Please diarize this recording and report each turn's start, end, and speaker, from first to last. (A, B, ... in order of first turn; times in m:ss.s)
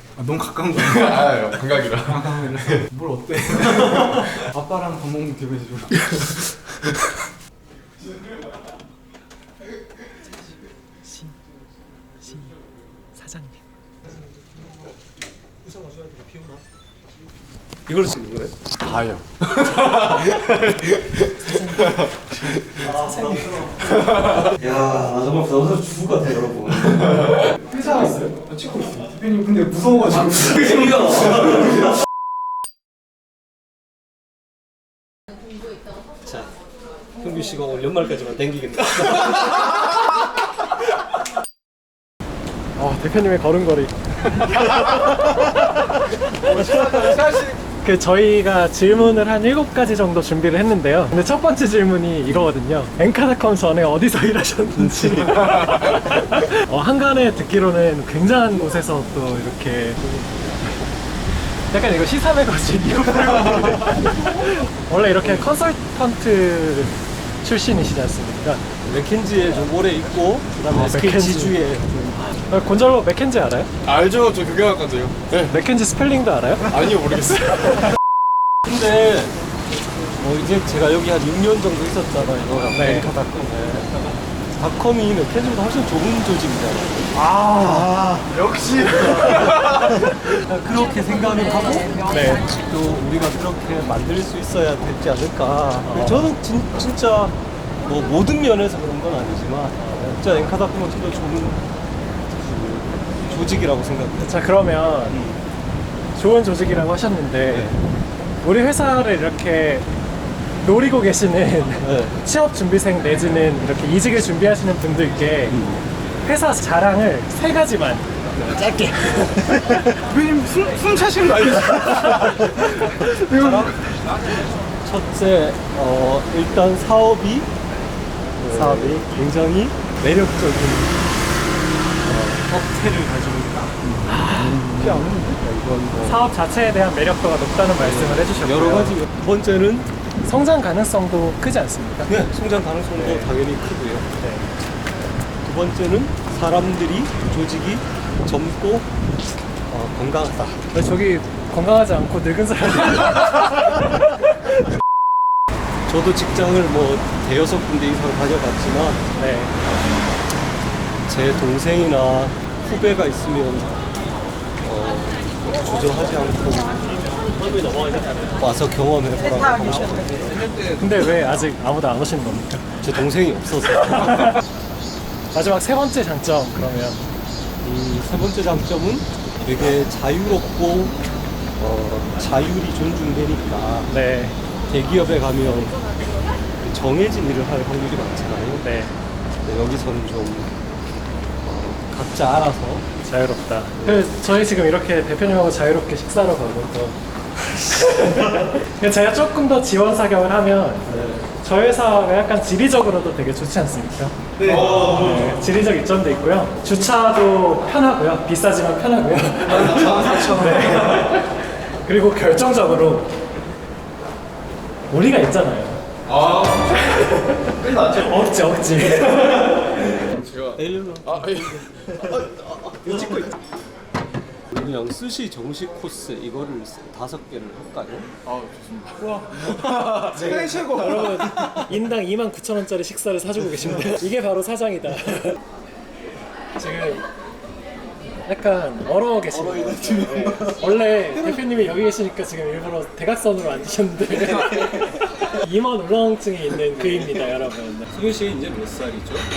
0:00.2-0:06.9 A
0:00.8-0:02.8 B
0:10.3-0:11.4 C
0:12.2-0:12.6 C
0:13.1-0:13.7 C
0:15.7-0:16.6 C
0:17.9-0:18.6 D
0:18.8-0:20.6 B
0:21.3-0:23.8 C
0:22.8-0:27.4 D
0:23.9-0:24.3 B
0:27.7-0:28.4 C
0:28.4-0:31.6 A
0:30.5-0:31.9 D
0:36.2-0:36.5 D
0:37.2-0:40.1 D
0:42.8-1:00.2 C
0:46.5-0:47.5 A
1:01.7-1:08.7 C
1:05.2-1:05.5 D
1:08.8-1:12.2 D
1:10.7-1:11.6 C
1:12.2-1:13.7 C
1:13.8-1:15.5 B
1:15.4-1:16.8 C
1:16.7-1:17.8 B
1:18.7-1:19.4 D
1:20.1-1:27.1 D
1:22.7-1:23.1 C
1:27.2-1:28.0 C
1:28.3-1:30.0 B
1:29.6-1:41.6 D
1:32.0-1:32.4 C
1:35.8-1:36.3 C
1:39.8-1:40.2 C
1:42.3-1:44.4 D
1:44.2-1:45.2 C
1:45.1-1:45.4 D
1:46.2-1:47.7 C
1:47.5-1:47.8 D
1:48.4-1:49.9 C
1:50.6-1:55.6 C
1:51.8-1:52.2 D
1:55.5-1:55.9 D
1:56.2-1:59.8 C
2:00.0-2:03.8 A
2:03.3-2:03.8 D
2:04.8-2:07.5 D
2:08.4-2:11.0 D
2:08.5-2:09.1 C
2:12.0-2:16.3 D
2:14.0-2:14.6 C
2:14.7-2:15.4 A
2:16.0-2:19.0 C
2:17.8-2:19.9 D
2:20.2-2:22.2 C
2:22.0-2:24.1 D
2:22.9-2:23.4 C
2:24.2-2:24.5 C
2:25.4-2:28.9 D
2:29.7-2:30.7 D
2:30.7-2:34.6 C
2:35.9-2:39.1 D
2:39.2-2:39.6 C
2:39.6-2:40.2 D
2:41.0-2:43.8 D
2:44.6-2:50.5 D
2:50.7-2:52.9 C
2:52.8-2:54.4 D
2:53.8-2:54.4 C
2:55.3-2:57.1 C
2:57.6-3:01.0 D
3:01.6-3:03.9 D
3:03.8-3:04.4 C
3:04.7-3:05.8 D
3:06.6-3:08.7 D
3:08.6-3:08.9 C
3:09.4-3:10.6 D
3:11.4-3:12.9 D
3:13.0-3:17.0 C
3:13.8-3:14.1 D
3:17.6-3:33.2 C
3:20.9-3:21.3 D
3:24.4-3:24.8 A
3:24.4-3:25.3 B
3:29.5-3:31.0 B
3:29.6-3:30.6 A
3:34.9-3:35.8 C
3:36.1-3:38.3 B
3:36.7-3:40.1 C
3:40.1-3:43.2 B
3:40.6-3:42.2 D
3:42.8-3:43.3 D
3:44.5-3:48.1 D
3:48.2-3:51.0 B
3:49.0-3:51.8 A
3:50.3-3:55.4 C
3:56.6-3:57.0 C
3:58.2-4:07.9 C
3:59.3-4:00.6 D
4:01.1-4:01.5 A
4:06.7-4:07.3 D
4:07.9-4:09.3 D